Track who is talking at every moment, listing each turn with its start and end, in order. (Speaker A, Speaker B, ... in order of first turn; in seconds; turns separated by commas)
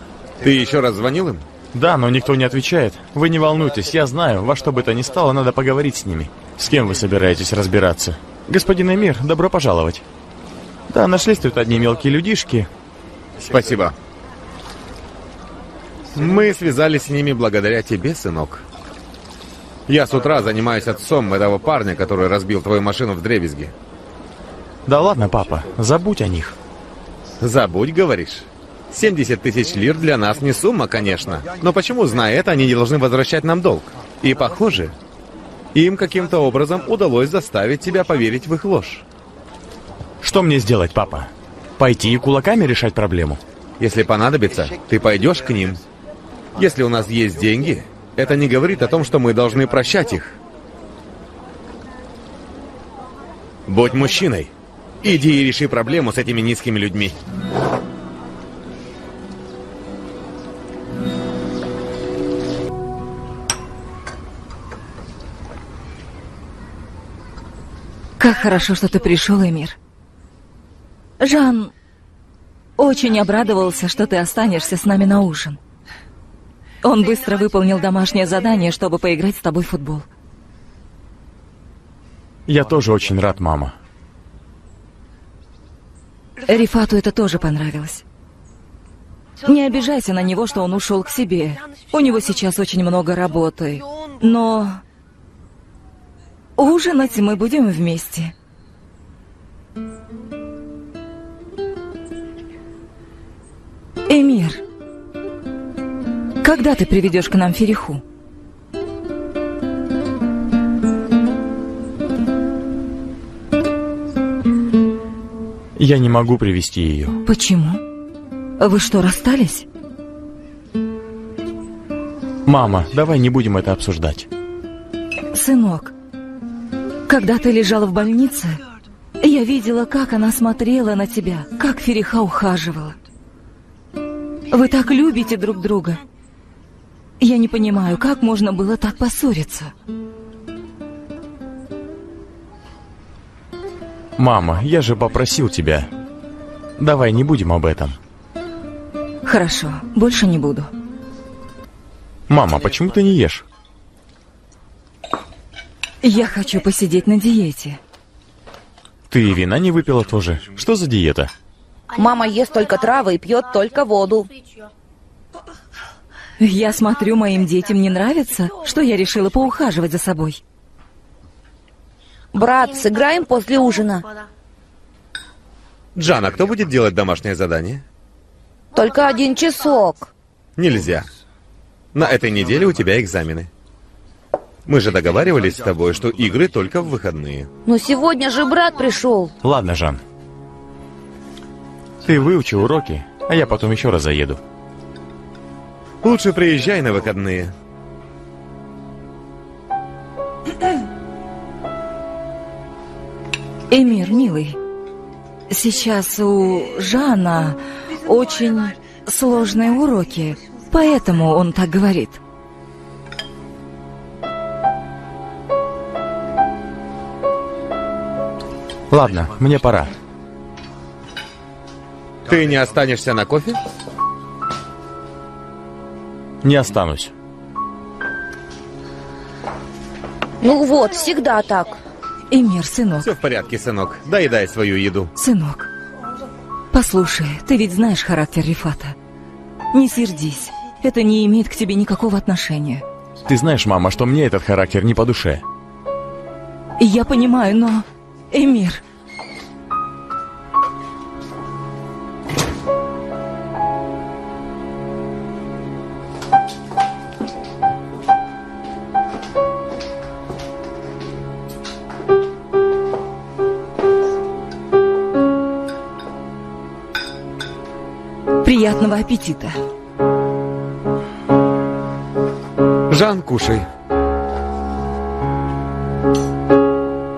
Speaker A: 0.4-1.4, Speaker B: 1.7-10.0, Speaker B: 10.9-12.7, Speaker A: 13.4-14.0, Speaker A: 16.1-18.6, Speaker A: 19.9-23.7, Speaker B: 24.9-26.6, Speaker A: 27.4-35.0, Speaker A: 35.7-39.0, Speaker B: 40.2-43.4, Speaker A: 43.8-45.8, Speaker A: 46.5-50.4, Speaker A: 53.7-54.5, Speaker A: 55.0-57.2, Speaker C: 68.2-69.8, Speaker C: 71.2-71.7, Speaker C: 72.8-75.6, Speaker C: 76.8-80.1, Speaker B: 82.5-83.7, Speaker C: 86.5-88.0, Speaker C: 89.4-94.8, Speaker C: 96.6-98.3, Speaker C: 104.1-104.6, Speaker C: 106.4-108.0, Speaker B: 115.8-117.2, Speaker C: 117.2-117.8, Speaker C: 118.6-119.7, Speaker B: 122.5-124.3, Speaker C: 125.3-125.9, Speaker C: 127.1-128.6, Speaker C: 129.2-133.0, Speaker C: 134.5-136.0, Speaker C: 137.2-139.7, Speaker B: 144.2-145.9, Speaker B: 146.8-148.0, Speaker C: 149.2-150.7, Speaker B: 152.3-153.4, Speaker C: 156.0-157.8, Speaker B: 159.1-161.3, Speaker D: 161.9-164.3, Speaker C: 166.4-170.4, Speaker D: 172.3-174.1, Speaker A: 175.9-177.8, Speaker D: 178.7-180.1, Speaker A: 180.6-181.1, Speaker A: 181.9-183.5, Speaker A: 184.7-187.5, Speaker D: 187.7-189.3, Speaker B: 189.4-190.0, Speaker B: 192.0-194.4, Speaker A: 196.0-197.5, Speaker C: 203.7-204.6, Speaker C: 205.5-212.2, Speaker B: 218.9-219.9, Speaker A: 222.3-223.6, Speaker B: 226.4-227.1, Speaker D: 230.4-231.8, Speaker C: 232.3-233.1, Speaker A: 233.0-235.1, Speaker C: 235.2-235.7, Speaker C: 236.7-238.9, Speaker C: 239.7-242.8, Speaker B: 243.3-245.4, Speaker C: 246.8-248.8, Speaker C: 268.4-269.6, Speaker A: 272.9-273.7